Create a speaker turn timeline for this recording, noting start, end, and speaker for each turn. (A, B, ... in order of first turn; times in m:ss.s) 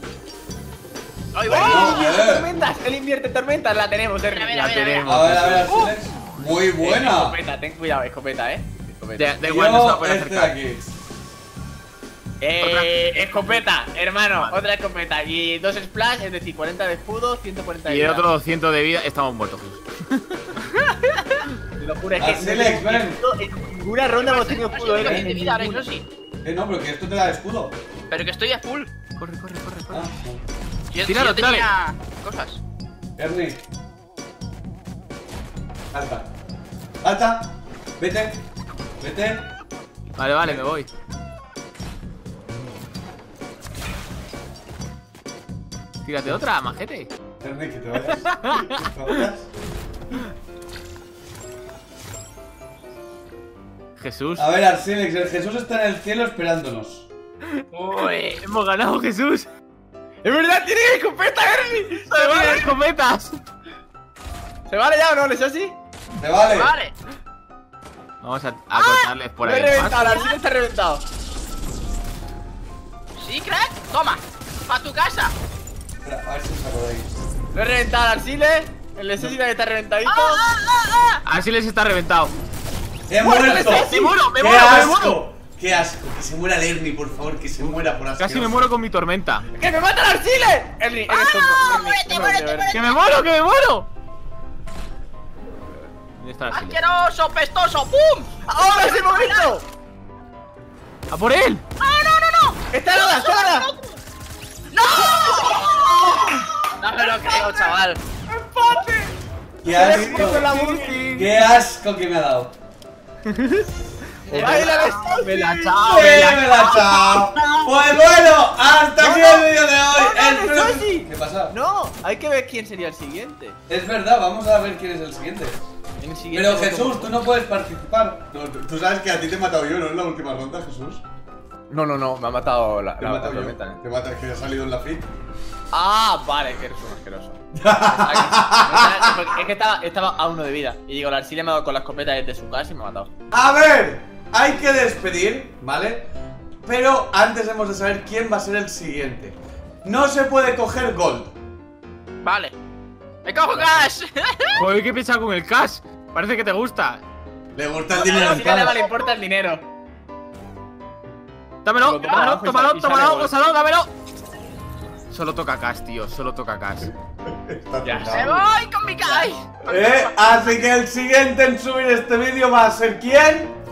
0:01.3-0:02.1 A
0:01.5-0:02.5 B
0:01.5-0:04.6 C
0:04.3-0:05.1 A
0:04.5-0:05.8 D
0:05.0-0:07.4 B
0:05.6-0:05.9 A
0:06.8-0:09.3 C
0:09.2-0:10.5 D
0:09.4-0:10.9 B
0:12.4-0:18.2 C
0:12.6-0:13.6 D
0:17.8-0:20.4 D
0:20.6-0:25.8 C
0:22.2-0:23.2 B
0:24.2-0:26.0 A
0:25.0-0:25.4 B
0:26.4-0:27.8 B
0:28.1-0:28.9 A
0:29.2-0:30.1 D
0:29.9-0:30.4 B
0:30.9-0:32.6 A
0:31.0-0:31.7 D
0:33.2-0:33.6 B
0:35.9-0:36.3 B
0:37.0-0:38.4 B
0:39.0-0:39.5 B
0:40.2-0:40.9 D
0:46.0-0:47.1 D
0:47.4-0:49.5 B
0:48.1-0:49.1 D
0:54.0-0:54.5 D
0:54.4-0:57.0 B
0:57.7-0:58.4 A
0:57.9-0:59.5 D
1:00.2-1:02.7 C
1:02.1-1:03.4 D
1:04.7-1:05.7 C
1:06.2-1:06.7 B
1:06.5-1:06.9 A
1:08.2-1:10.3 D
1:08.8-1:09.0 A
1:09.4-1:11.0 C
1:13.2-1:15.3 A
1:16.0-1:17.1 B
1:17.5-1:21.0 C
1:20.1-1:20.6 A
1:21.2-1:22.3 D
1:23.1-1:28.6 B
1:23.2-1:24.2 C
1:23.6-1:25.2 D
1:28.2-1:29.4 D
1:29.5-1:32.8 C
1:31.1-1:33.1 A
1:32.7-1:33.9 D
1:36.2-1:36.8 D
1:36.5-1:39.5 A
1:38.5-1:39.6 C
1:41.1-1:41.6 D
1:41.8-1:43.9 A
1:42.7-1:43.7 C
1:44.7-1:46.2 A
1:45.1-1:46.3 C
1:46.8-1:48.0 A
1:47.2-1:47.7 C
1:48.3-1:49.1 C
1:49.6-1:50.5 B
1:49.6-1:51.0 C
1:49.8-1:51.3 D
1:51.0-1:52.5 B
1:53.3-1:53.7 D
1:54.3-1:57.6 D
1:54.3-1:55.8 C
1:54.3-1:54.6 B
1:55.8-2:01.5 B
1:59.0-2:03.6 C
2:03.7-2:05.6 B
2:06.0-2:07.1 C
2:06.3-2:11.0 B
2:11.7-2:13.8 C
2:13.0-2:15.0 B
2:15.7-2:17.4 C
2:17.5-2:19.1 B
2:17.9-2:23.1 C
2:23.3-2:26.1 B
2:26.6-2:31.3 B
2:32.2-2:32.6 A
2:33.2-2:34.6 A
2:34.6-2:37.0 D
2:37.6-2:38.8 B
2:37.9-2:39.6 C
2:41.6-2:43.9 D
2:41.8-2:43.3 C
2:42.0-2:42.3 A
2:45.1-2:46.9 D
2:47.2-2:48.4 B
2:47.8-2:48.2 C
2:48.0-2:50.5 A
2:49.6-2:53.5 B